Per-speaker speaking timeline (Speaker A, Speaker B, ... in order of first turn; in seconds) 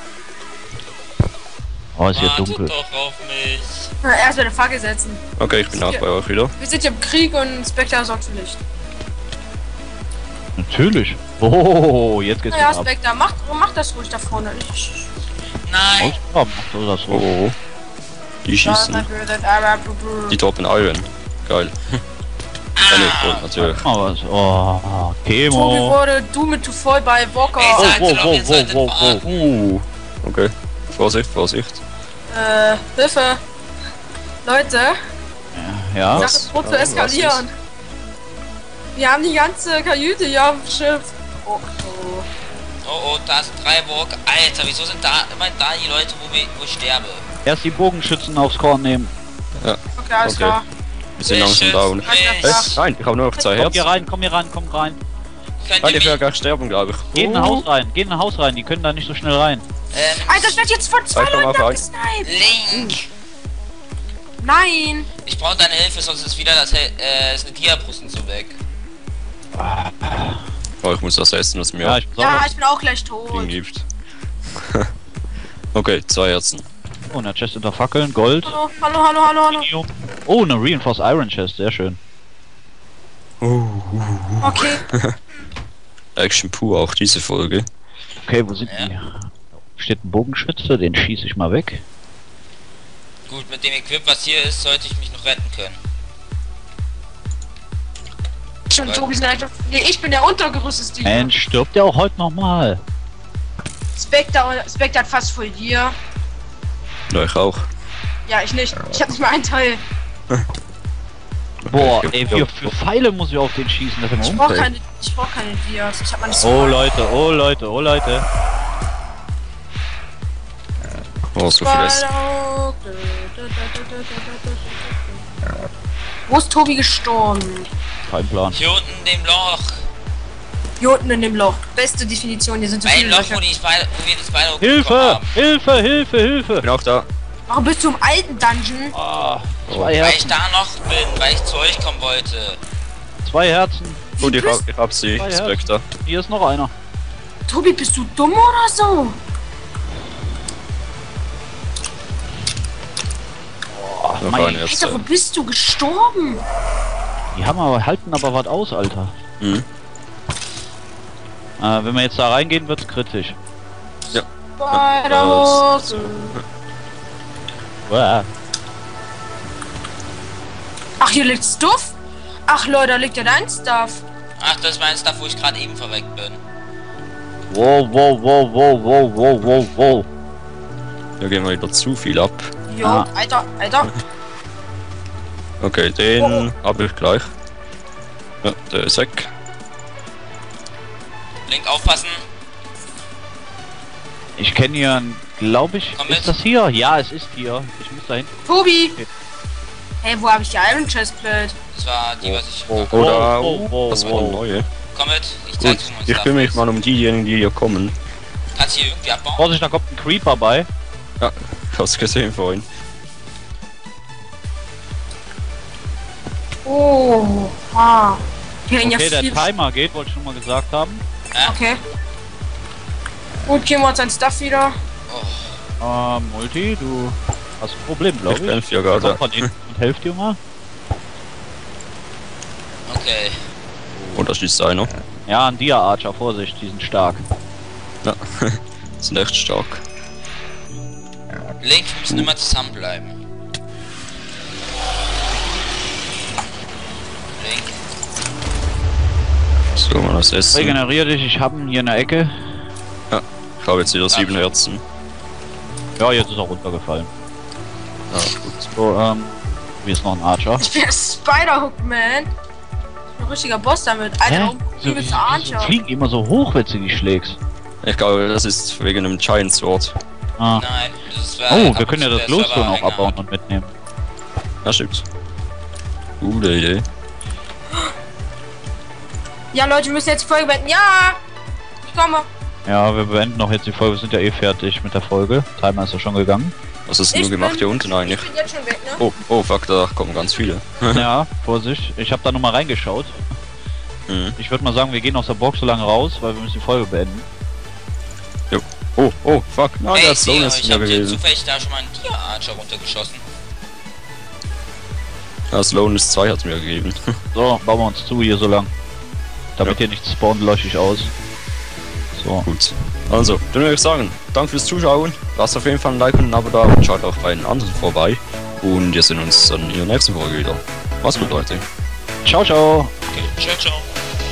Speaker A: 1.9-2.7, 10.6-12.9, 16.0-17.3, 23.6-26.0, 27.7-29.5, 35.5-36.3, 47.4-49.1, 53.5-55.0, 57.1-59.6, 69.5-70.4, 71.8-72.5, 77.1-78.6, 79.5-82.0, 88.2-91.8, 101.0-102.8, 111.7-114.5, 116.4-118.2, 128.1-128.6, 134.6-136.7, 138.9-140.4, 143.2-144.0, 145.2-146.7, 153.7-154.7, 157.3-159.1, 161.6-163.4, 167.8-168.3, 177.5-180.1, 182.8-183.1, 194.4-198.3, 202.9-204.4, 209.4-210.7, 218.8-221.0, 225.8-230.4, 235.3-237.2, 250.5-252.6, 256.0-257.1, 258.7-260.6, 264.2-267.4, 270.4-270.6, 271.5-273.7, 282.6-286.5, 290.9-293.2, 294.4-297.2, 307.3-308.7, 309.6-311.1, 312.1-312.5, 322.2-322.9
Speaker B: 2.1-3.9, 15.6-16.2, 22.8-23.4, 27.5-29.4, 42.8-47.2, 51.2-52.5, 55.6-56.2, 59.9-60.6, 62.2-63.0, 65.2-68.6, 88.7-88.9, 93.3-95.8, 128.5-129.8, 132.8-135.3, 140.0-142.6, 174.4-176.4, 191.5-192.2, 195.9-196.4, 201.7-203.3, 204.9-206.6, 208.5-209.4, 225.1-225.6, 232.9-233.3, 241.6-243.2, 247.4-247.8, 254.1-254.5, 270.5-273.2, 299.9-303.2, 323.1-323.9
Speaker C: 4.0-6.0, 6.6-8.6, 12.5-15.1, 18.6-20.4, 25.5-28.0, 32.3-33.4, 34.4-34.9, 36.1-37.5, 39.0-42.2, 50.0-50.6, 52.0-52.8, 57.3-57.6, 60.2-63.0, 64.4-65.1, 72.2-73.5, 78.4-79.7, 84.4-84.8, 98.7-101.3, 104.0-105.9, 108.2-109.8, 114.3-116.8, 121.6-125.2, 126.3-127.7, 130.8-133.4, 137.5-138.9, 144.2-144.6, 147.5-149.2, 154.5-156.4, 164.6-166.4, 171.0-171.9, 172.5-174.0, 182.7-184.0, 186.2-186.5, 198.4-199.0, 200.0-201.5, 216.6-219.4, 221.4-221.8, 223.4-224.7, 260.6-262.3, 263.1-265.7, 279.5-281.2, 281.9-282.3, 287.1-289.0, 290.2-290.8
Speaker D: 5.4-6.5, 17.1-17.5, 18.4-19.1, 20.3-22.0, 22.9-23.9, 29.2-31.8, 36.1-37.4, 49.6-50.6, 51.2-53.9, 55.8-57.3, 61.1-61.8, 70.8-72.0, 73.3-73.8, 74.6-74.9, 75.7-76.7, 83.4-85.1, 86.2-87.7, 107.1-107.7, 111.6-112.7, 114.2-114.7, 121.3-122.1, 136.6-137.1, 139.7-139.9, 144.2-145.8, 154.2-155.0, 159.4-159.7, 164.1-166.4, 181.2-182.5, 185.6-187.3, 188.4-189.3, 202.2-204.7, 205.6-207.9, 211.2-212.7, 228.3-229.5, 234.1-234.9, 238.0-239.8, 249.7-250.8, 253.1-254.8, 258.1-258.7, 267.8-270.0, 274.6-275.1, 276.2-276.9, 286.9-288.2, 289.0-291.1, 294.1-294.4, 298.5-301.2, 305.5-307.0, 312.4-321.6